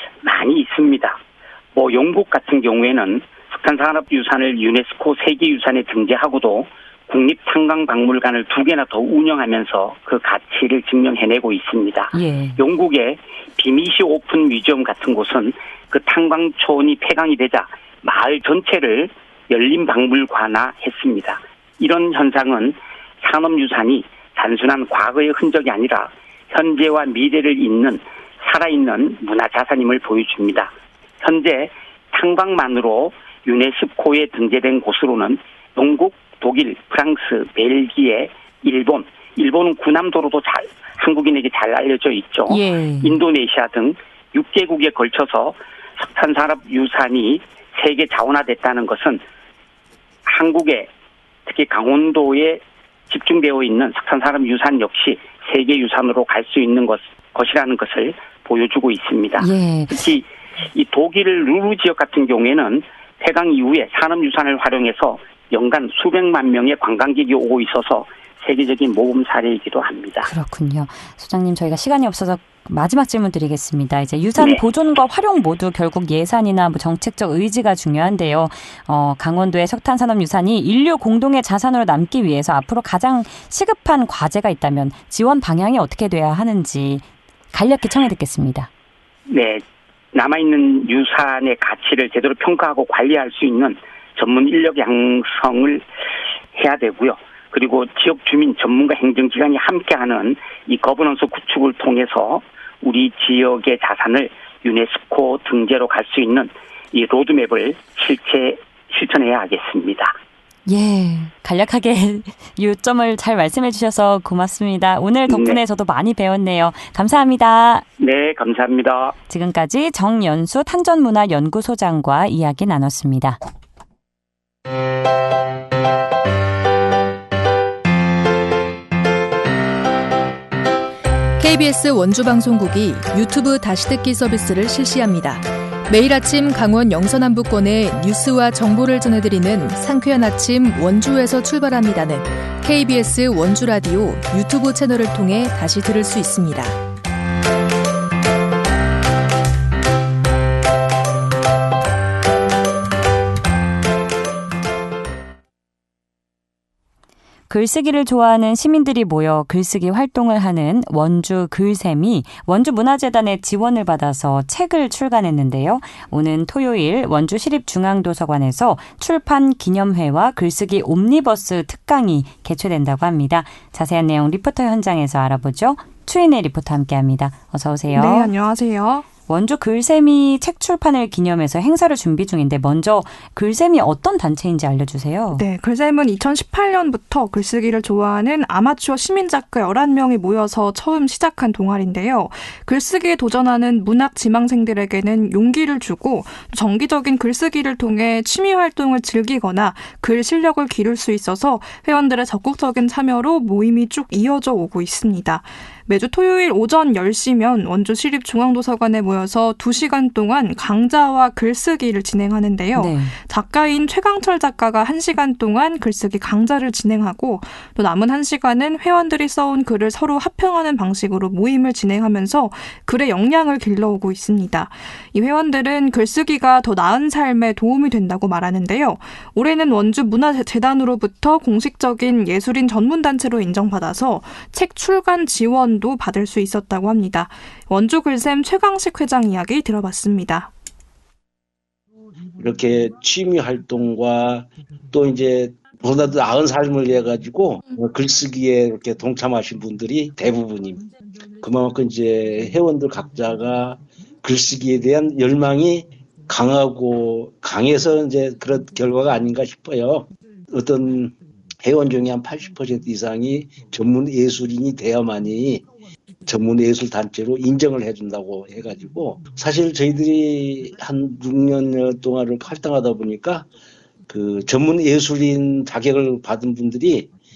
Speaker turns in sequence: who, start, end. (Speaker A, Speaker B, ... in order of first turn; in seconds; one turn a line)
Speaker A: 0.2-1.2
Speaker A: 1.7-49.2
Speaker B: 12.1-12.6
Speaker B: 42.5-43.2
Speaker A: 50.2-50.9
Speaker A: 51.5-70.3
Speaker B: 59.4-60.0
Speaker B: 70.2-88.7
Speaker A: 74.4-74.6
Speaker A: 89.3-89.6
Speaker A: 90.1-95.8
Speaker A: 96.5-110.1
Speaker B: 110.7-117.8
Speaker A: 115.3-115.6
Speaker A: 118.0-119.2
Speaker B: 119.3-123.4
Speaker C: 131.4-146.8
Speaker B: 157.5-178.3
Speaker D: 177.9-179.1
Speaker B: 179.3-185.4
Speaker D: 185.3-240.5
Speaker B: 212.7-213.2
Speaker E: 242.4-265.7
Speaker E: 266.2-273.5
Speaker E: 274.1-277.1